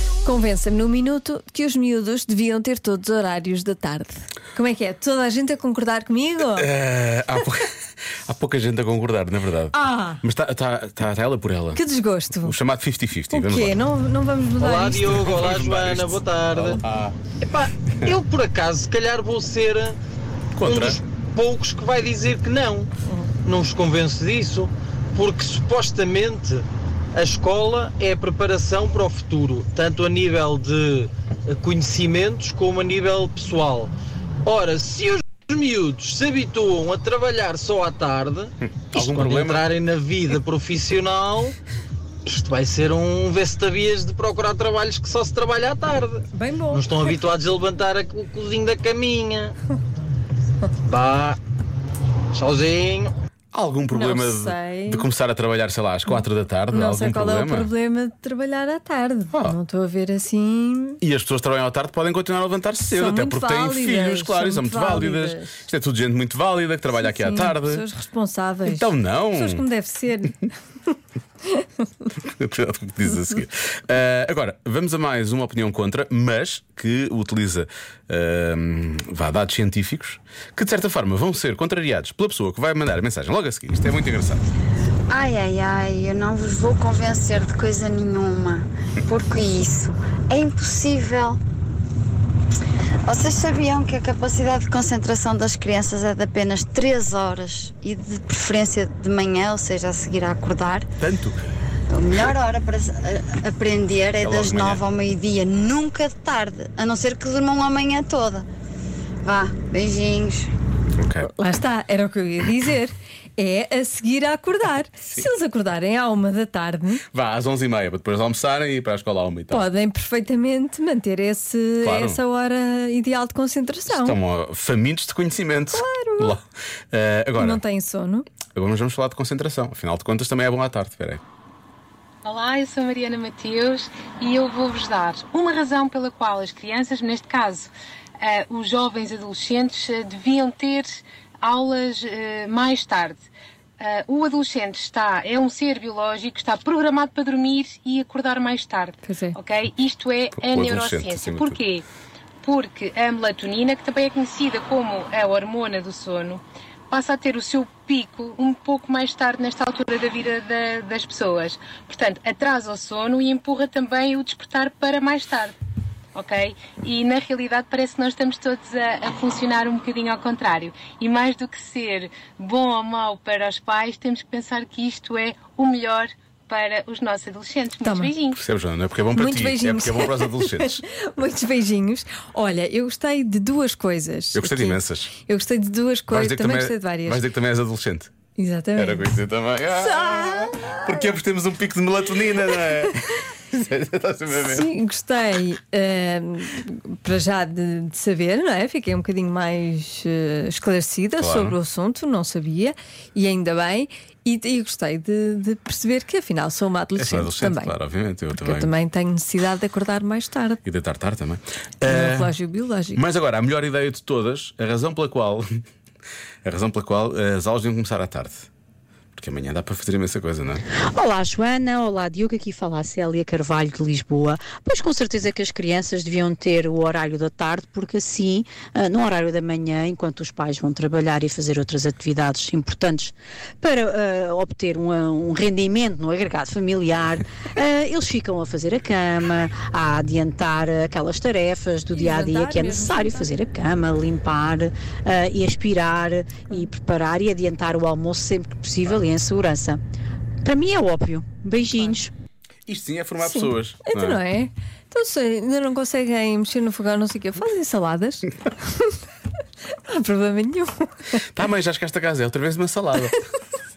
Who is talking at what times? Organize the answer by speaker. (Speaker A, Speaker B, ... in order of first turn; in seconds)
Speaker A: 0.2-6.7, 9.7-10.2, 11.7-12.6, 13.3-15.3, 23.0-23.3, 46.3-47.1, 53.9-55.1, 56.1-61.0, 62.9-65.6, 67.0-70.5, 111.2-117.0, 119.5-124.2, 125.7-126.4, 127.4-128.2, 149.0-149.4, 177.8-178.1, 179.1-187.2, 188.3-189.1, 189.7-190.8, 194.3-207.7, 208.3-210.6, 211.9-213.0, 241.9-243.3, 253.2-259.0, 259.7-260.9
Speaker B: 6.6-7.7, 8.2-11.8, 12.4-13.8, 15.0-17.2, 20.6-21.0, 38.9-39.6, 53.5-57.7, 61.0-67.8, 68.7-69.6, 72.2-84.4, 101.0-101.4, 104.2-104.8, 110.9-111.3, 117.1-119.7, 121.8-122.2, 123.9-127.6, 128.5-131.2, 150.4-151.6, 178.4-180.8, 184.3-185.1, 186.1-188.1, 188.8-194.7, 201.2-201.6, 207.0-208.7, 210.6-212.4, 212.9-215.4, 216.4-218.5, 219.1-220.6, 252.7-254.2, 261.3-263.2
Speaker C: 14.6-16.8, 17.4-19.9, 20.6-22.9, 23.4-33.9, 34.4-41.5, 42.2-49.5, 50.8-51.4, 52.3-53.1
Speaker D: 85.1-91.4, 93.0-100.9, 101.9-108.5, 109.2-110.5
Speaker E: 132.2-137.7, 138.2-143.2, 143.8-151.8, 152.4-165.6, 166.1-178.4
Speaker F: 220.9-249.8, 250.4-252.1